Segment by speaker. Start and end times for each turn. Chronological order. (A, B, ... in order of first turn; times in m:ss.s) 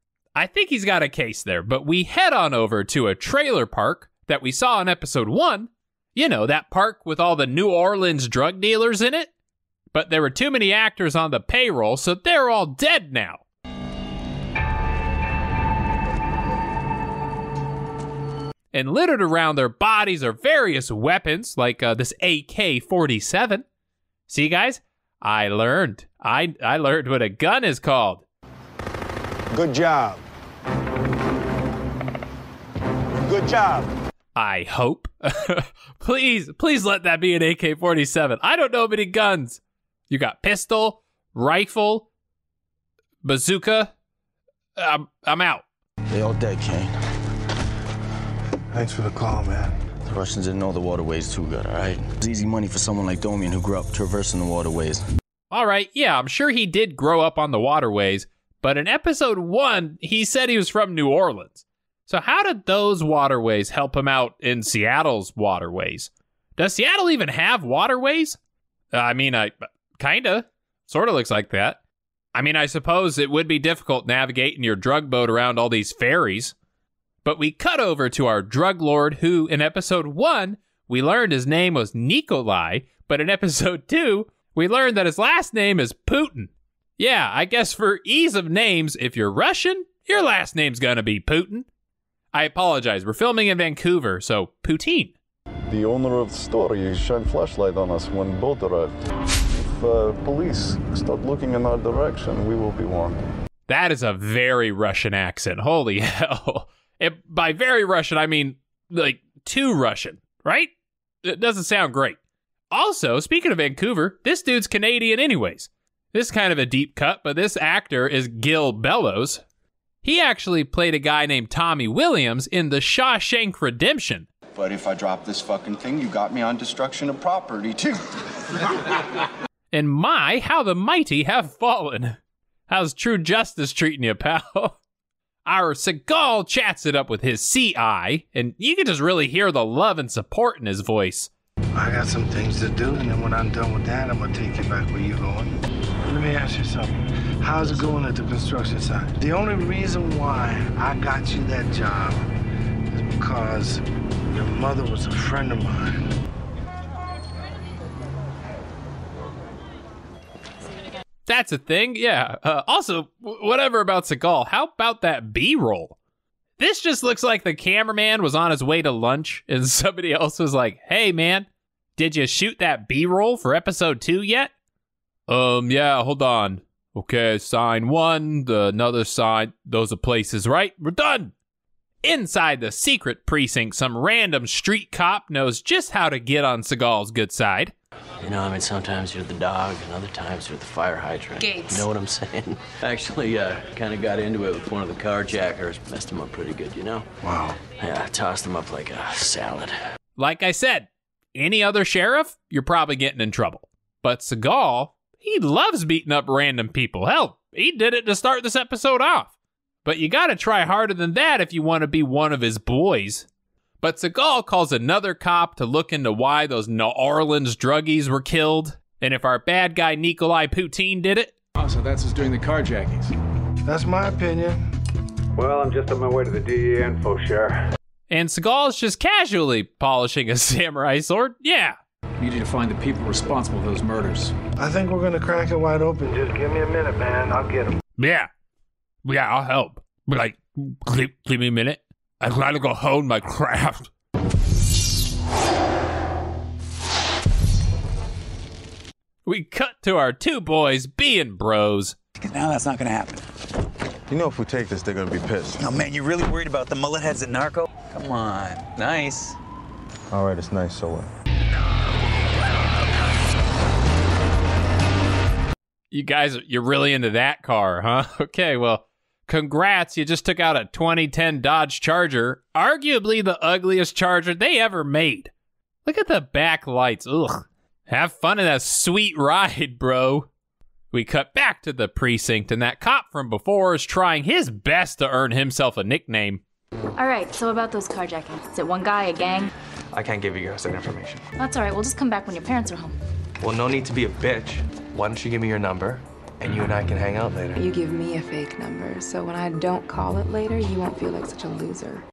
0:00.4-0:09.3 A
0:09.9-0:13.4 A
0:18.7-0:23.6 A
0:24.3-0:28.2 A
0:29.5-0:30.2 B
0:33.3-0:33.9 B
0:34.4-0:42.1 A
0:43.2-0:43.9 A
0:44.8-0:45.6 A
0:46.1-0:46.9 B
0:48.7-0:49.7 C
0:50.0-0:55.0 B
0:55.5-1:08.4 A
1:08.9-1:11.8 A
1:12.3-1:16.5 A
1:17.2-1:31.7 A
1:32.3-1:35.1 A
1:35.7-1:38.9 D
1:39.5-1:43.2 D
1:43.7-1:50.7 A
1:51.2-1:52.2 A
1:52.7-1:59.4 A
2:00.0-2:04.3 A
2:04.6-2:07.9 E
2:09.7-2:14.8 A
2:15.4-2:21.3 A
2:21.7-2:25.6 C
2:26.1-2:32.2 C
2:32.9-2:36.0 C
2:41.3-2:46.0 A
2:46.6-2:54.5 A
2:55.3-3:01.3 A
3:02.0-3:07.7 A
3:08.2-3:17.0 F
3:11.4-3:11.8 G
3:17.2-3:17.6 C
3:17.8-3:19.7 F
3:20.2-3:29.3 A
3:29.8-3:33.3 A
3:33.8-3:41.3 A
3:41.6-3:43.1 H
3:43.6-3:44.6 C
3:45.4-3:47.6 I
3:48.1-3:51.8 A
3:52.2-3:54.3 H
3:54.6-3:57.8 C
3:58.0-3:58.3 A
3:59.0-4:03.9 A
4:09.2-4:12.0 A
4:12.2-4:13.2 J
4:14.1-4:15.6 D
4:15.6-4:19.4 J
4:25.9-4:35.3 A
4:35.8-4:40.3 A
4:40.9-4:46.4 A
4:47.0-4:49.5 G
4:49.9-4:51.2 K
4:51.4-4:53.0 G
4:53.4-4:57.6 K
4:57.6-5:02.0 L